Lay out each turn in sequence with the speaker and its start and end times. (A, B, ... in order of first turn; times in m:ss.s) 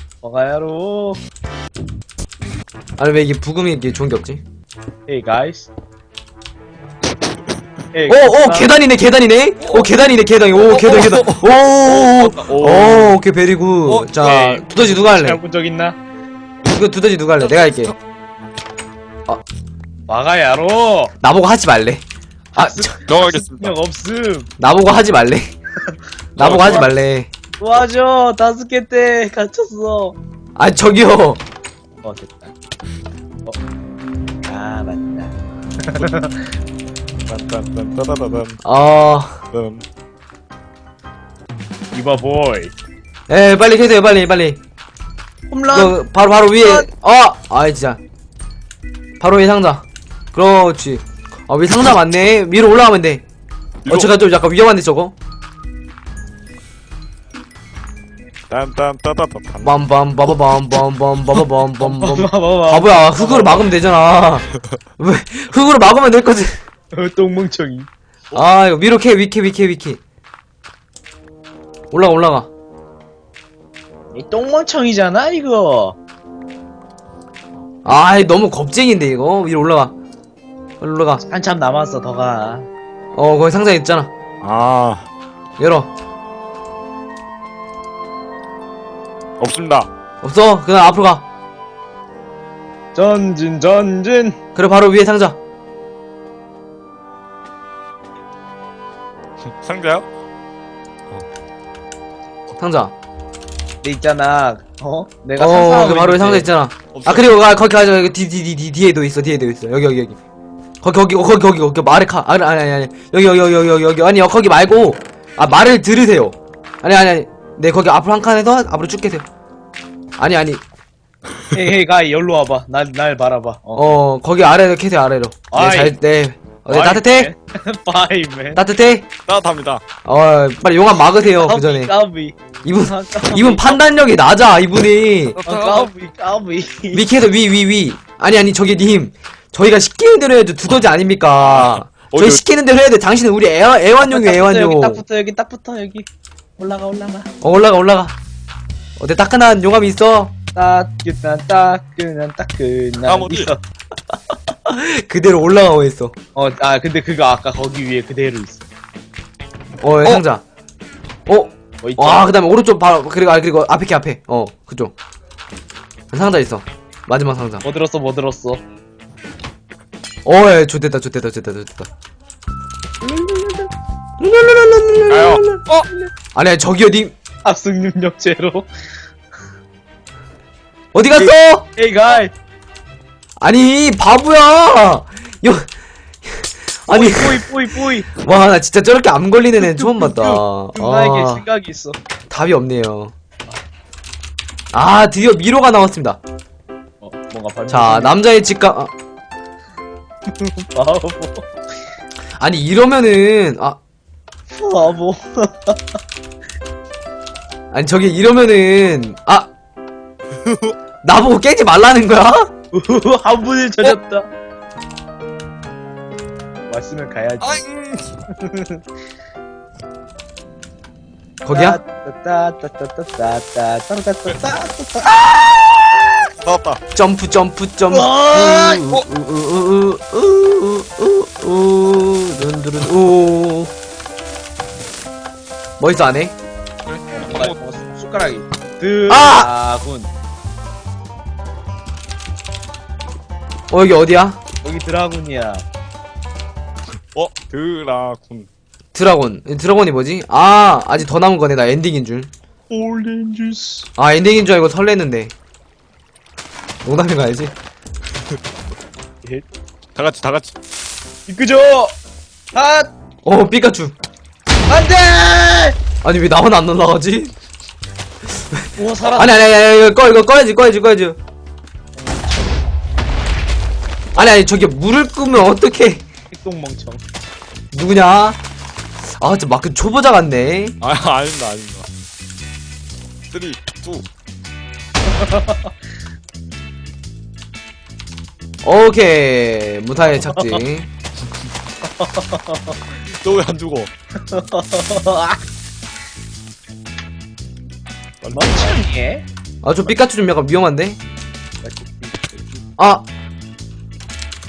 0:00.2-0:01.2 A
0:03.0-0:04.4 B
0:05.1-0:05.7 A
0:07.9-0:08.7 A
0:08.1-0:15.4 B
0:09.6-0:09.9 C
0:10.6-0:13.2 C
0:13.8-0:14.2 C
0:14.1-0:16.0 A
0:16.6-0:17.9 B
0:20.1-0:21.1 A
0:21.2-0:22.0 B
0:22.5-0:22.9 B
0:22.5-0:24.5 A
0:23.0-0:23.7 C
0:24.6-0:25.5 B
0:26.4-0:27.3 B
0:26.4-0:26.8 C
0:26.4-0:26.9 A
0:27.6-0:30.2 A
0:30.6-0:31.4 B
0:32.0-0:32.5 A
0:34.5-0:36.5 A
0:37.3-0:38.6 C
0:38.6-0:39.4 B
0:39.5-0:39.8 C
0:41.9-0:42.7 A
0:43.3-0:44.6 B
0:45.5-0:46.9 A
0:45.7-0:48.0 B
0:49.2-0:53.2 B
0:53.8-0:54.1 C
0:53.9-0:55.1 B
0:58.5-0:59.8 C
0:59.6-1:06.6 B
1:01.8-1:03.6 A
1:06.9-1:07.9 A
1:08.3-1:10.0 B
1:11.9-1:12.5 B
1:14.1-1:16.0 A
1:17.8-1:19.9 B
1:20.8-1:21.2 B
1:21.2-1:22.7 A
1:23.1-1:24.1 B
1:24.4-1:25.1 C
1:25.6-1:25.9 B
1:29.4-1:29.9 C
1:30.2-1:31.2 B
1:32.9-1:34.4 A
1:34.6-1:35.4 B
1:39.6-1:40.1 C
1:42.6-1:42.9 B
1:43.8-1:46.5 A
1:45.4-1:50.2 B
1:46.9-1:47.4 C
1:50.8-1:59.2 B
2:00.2-2:00.6 B
2:01.5-2:03.8 A
2:03.8-2:07.3 B
2:05.5-2:06.0 A
2:06.7-2:08.6 A
2:08.5-2:09.1 B
2:09.2-2:09.8 C
2:10.0-2:11.9 B
2:11.0-2:13.8 A
2:12.6-2:15.4 B
2:15.3-2:15.9 C
2:15.4-2:17.1 A
2:16.9-2:25.0 B
2:21.5-2:22.4 C
2:24.0-2:26.1 A
2:26.6-2:27.3 A
2:27.4-2:28.1 B
2:29.0-2:30.3 B
2:30.5-2:33.6 A
2:33.0-2:33.5 C
2:34.6-2:36.1 B
2:36.4-2:38.6 A
2:39.8-2:40.4 B
2:41.3-2:44.9 B
2:41.8-2:42.3 A
2:46.1-2:47.6 B
2:47.6-2:48.6 A
2:50.2-2:51.9 B
2:53.0-2:53.7 A
2:54.2-2:55.6 B
2:55.1-2:55.8 C
2:55.8-2:56.1 A
2:56.3-2:57.1 B
2:57.4-2:58.7 A
3:00.9-3:01.7 B
3:01.1-3:02.3 A
3:03.4-3:05.7 B
3:06.2-3:07.5 B
3:06.9-3:08.1 A
3:08.1-3:11.4 B
3:09.6-3:12.0 A
3:12.3-3:13.1 B
3:14.7-3:16.2 B
3:17.0-3:18.1 A
3:17.7-3:18.9 B
3:20.3-3:21.5 A
3:22.4-3:23.8 B
3:24.5-3:25.8 A
3:27.7-3:29.5 B
3:30.4-3:30.7 C
3:31.0-3:32.5 B
3:32.7-3:34.3 A
3:36.7-3:37.6 A
3:37.4-3:38.2 C
3:38.3-3:38.8 A
3:41.4-3:41.8 B
3:41.5-3:46.0 A
3:46.4-3:46.8 C
3:46.9-3:53.7 B
3:47.9-3:48.9 A
3:55.8-3:56.3 B
3:56.8-3:57.5 C
3:57.1-4:00.1 A
3:59.1-3:59.5 B
4:03.7-4:04.4 B
4:04.6-4:05.6 A
4:07.1-4:08.5 C
4:08.9-4:12.3 B
4:12.7-4:13.9 A
4:14.0-4:15.3 B
4:16.8-4:17.5 B
4:19.9-4:20.5 C
4:21.3-4:21.9 A
4:22.5-4:22.9 A
4:23.2-4:23.9 B
4:24.7-4:25.8 A
4:26.0-4:27.3 B
4:28.5-4:31.2 B
4:28.8-4:29.4 A
4:32.0-4:32.6 A
4:34.2-4:36.0 B
4:36.3-4:37.0 A
4:37.7-4:38.4 B
4:39.2-4:40.8 B
4:40.8-4:41.9 C
4:43.3-4:44.1 C
4:45.1-4:45.7 A
4:48.6-4:50.9 B
4:50.1-4:50.6 A
4:52.0-4:52.8 A
4:53.1-4:53.9 C
4:54.2-4:55.4 A
4:58.2-4:58.8 C
4:58.3-4:59.2 A
4:59.6-5:01.0 B
5:01.6-5:02.6 A
5:02.8-5:03.0 B